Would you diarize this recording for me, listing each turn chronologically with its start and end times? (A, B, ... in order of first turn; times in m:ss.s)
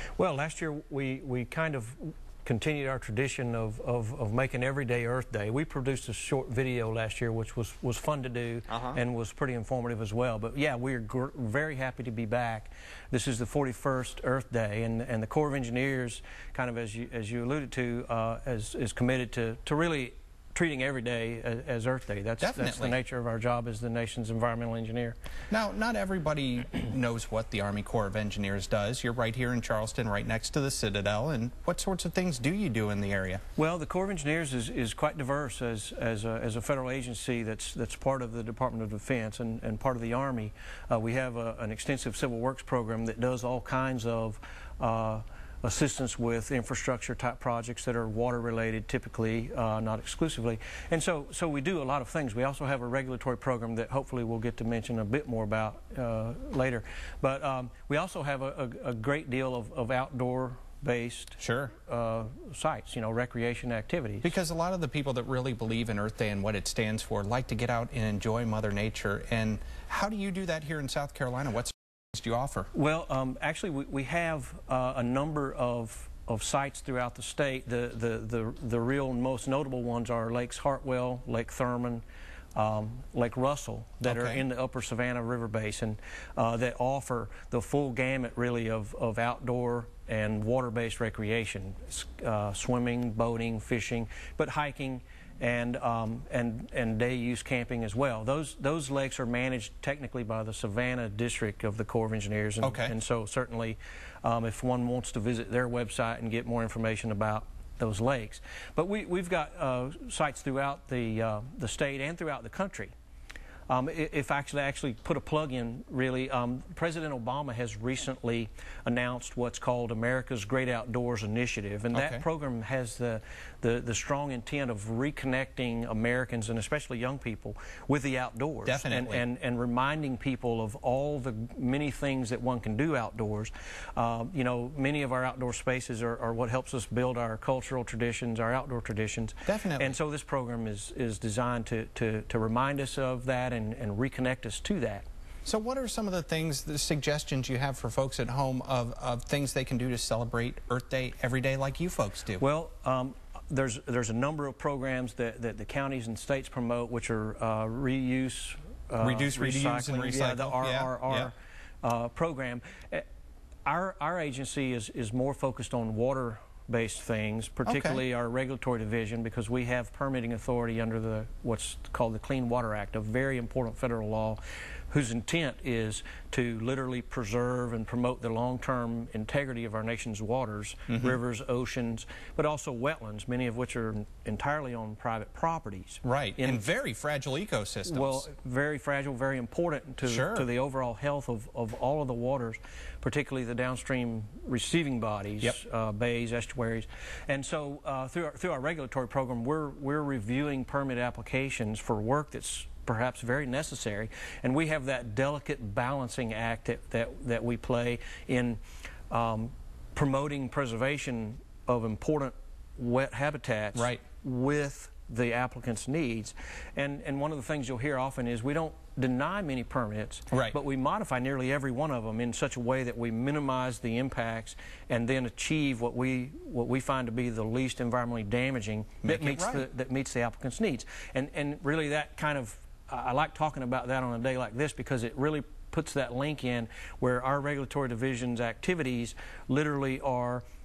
0:00.2-0:25.2 A
0:08.7-0:09.0 B
0:22.4-0:23.0 B
0:25.5-0:33.4 B
0:33.6-1:04.3 A
1:01.4-1:01.7 B
1:04.2-1:12.7 B
1:12.7-1:22.0 A
1:22.6-1:52.9 A
1:24.0-1:24.4 B
1:42.6-1:42.9 B
1:53.7-2:25.0 A
2:01.9-2:02.2 B
2:08.7-2:09.2 B
2:19.4-2:20.0 B
2:25.5-2:32.4 B
2:32.4-2:43.0 A
2:39.0-2:41.3 B
2:43.6-3:06.7 A
2:47.7-2:48.0 B
3:00.9-3:01.2 B
3:06.0-3:08.3 B
3:07.9-4:00.4 A
3:10.0-3:10.5 B
3:33.8-3:34.0 B
3:40.3-3:40.6 B
3:49.0-3:49.7 B